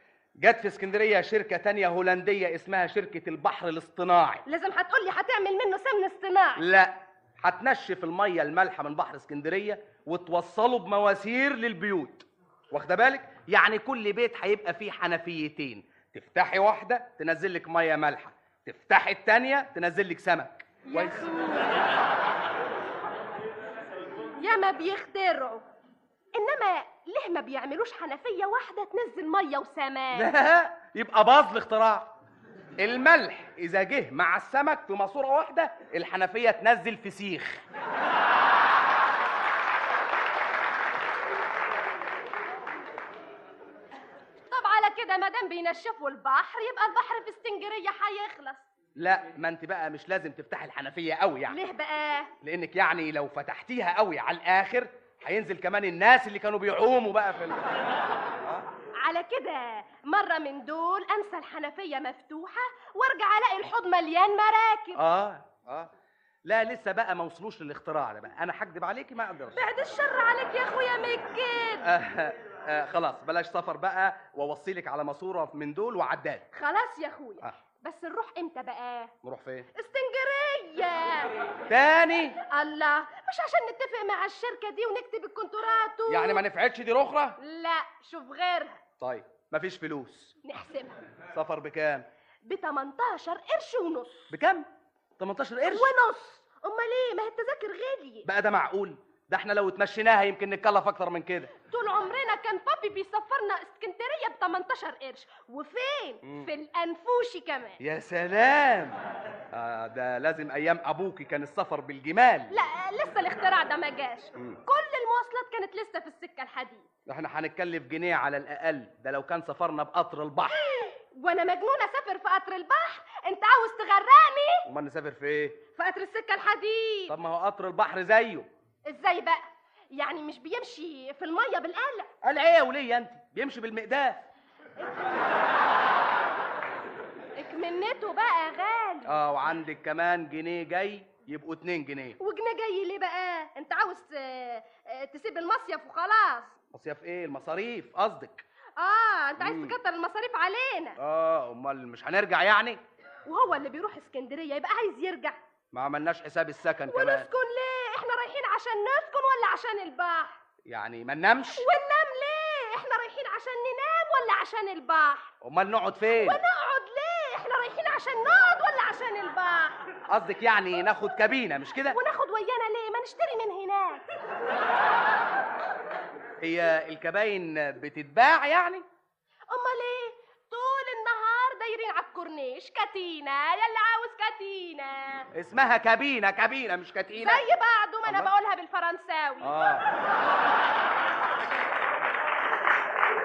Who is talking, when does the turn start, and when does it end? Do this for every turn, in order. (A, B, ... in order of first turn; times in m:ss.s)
0:00.4-0:04.4 A
0:04.4-0:06.6 B
0:06.6-0:21.3 A
0:20.9-0:21.8 B
0:24.4-0:25.6 B
0:26.3-0:30.3 B
0:30.1-0:32.2 A
0:32.8-0:37.6 A
0:44.5-0:48.6 B
0:49.0-0:51.6 A
0:51.5-0:52.3 B
0:52.4-0:57.7 A
0:58.4-0:58.7 A
0:59.0-1:05.0 B
1:05.0-1:05.9 A
1:06.4-1:09.6 A
1:09.5-1:11.9 B
1:11.8-1:16.5 A
1:16.5-1:19.1 B
1:19.2-1:19.7 A
1:19.7-1:21.3 B
1:21.7-1:22.4 A
1:22.4-1:26.4 B
1:26.1-1:27.4 A
1:27.4-1:28.8 B
1:29.0-1:30.3 A
1:30.4-1:31.0 B
1:31.3-1:32.0 A
1:32.4-1:34.3 B
1:34.3-1:34.7 A
1:35.2-1:35.9 A
1:35.7-1:38.3 B
1:38.2-1:41.5 A
1:41.7-1:47.8 B
1:46.2-1:46.5 A
1:47.8-1:49.0 A
1:49.5-1:52.5 A
1:52.5-1:56.9 B
1:57.1-2:00.6 A
2:00.6-2:04.7 B
2:04.7-2:05.6 A
2:05.8-2:07.2 B
2:07.1-2:08.5 A
2:08.9-2:12.1 B
2:12.2-2:14.2 A
2:17.4-2:19.1 B
2:19.0-2:22.2 A
2:22.2-2:26.5 B
2:26.7-2:28.4 A
2:28.8-2:31.0 B
2:29.4-2:29.7 A
2:31.0-2:32.8 A
2:33.2-2:35.4 B
2:35.7-2:37.3 A
2:36.9-2:40.4 B
2:40.6-2:41.7 A
2:41.5-2:45.3 B
2:45.4-2:46.4 A
2:46.2-2:49.8 B
2:50.1-2:52.0 A
2:51.9-2:54.0 B
2:56.4-2:58.8 A
2:59.5-3:05.3 B
3:05.3-3:07.5 A
3:07.2-3:09.5 B
3:08.0-3:08.3 A
3:09.4-3:09.8 A